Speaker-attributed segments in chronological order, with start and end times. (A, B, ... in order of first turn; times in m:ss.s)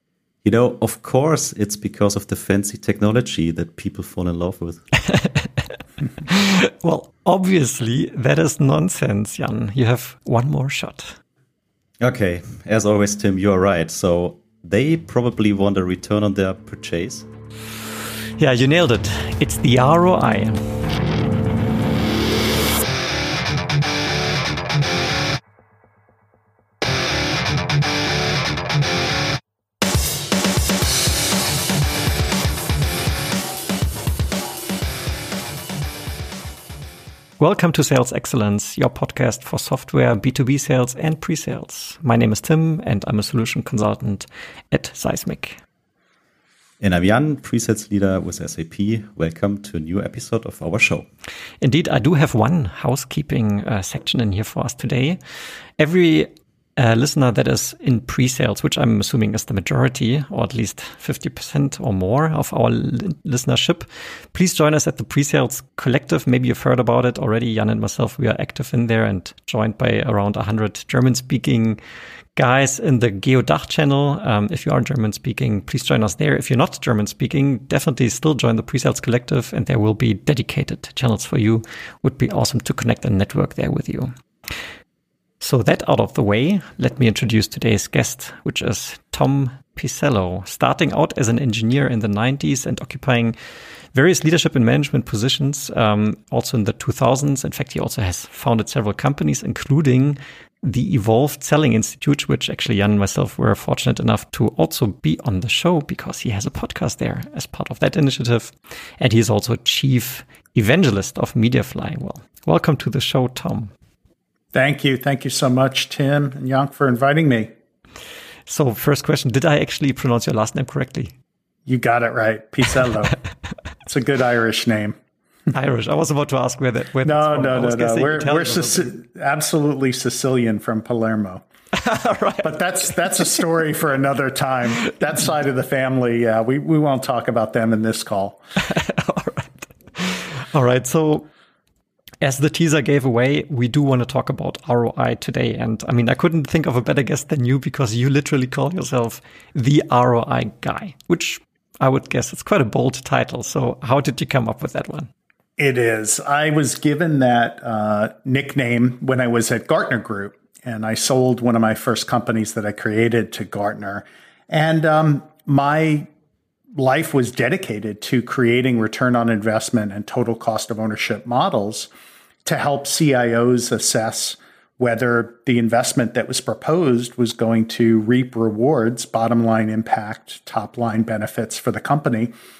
0:00.4-0:04.9 A
0:05.1-0:05.5 B
0:06.2-0:11.2 B
0:12.0-0:17.2 A
0:18.4-0:20.8 B
0:37.4-0:45.6 B
0:46.8-0:51.1 A
0:51.6-0:55.2 B
0:55.8-1:11.8 B
1:12.4-1:24.1 B
1:25.4-1:33.4 B
1:33.9-1:53.7 B
1:54.5-1:57.5 C
1:58.5-2:01.1 B
2:01.6-2:03.1 C
2:03.8-2:05.0 C
2:05.5-2:08.9 B
2:07.0-2:11.4 C
2:11.7-2:13.3 B
2:12.4-2:18.4 C
2:18.6-2:21.3 B
2:22.2-2:35.1 B
2:35.6-2:46.1 C
2:46.8-2:51.9 C
2:52.4-3:02.3 C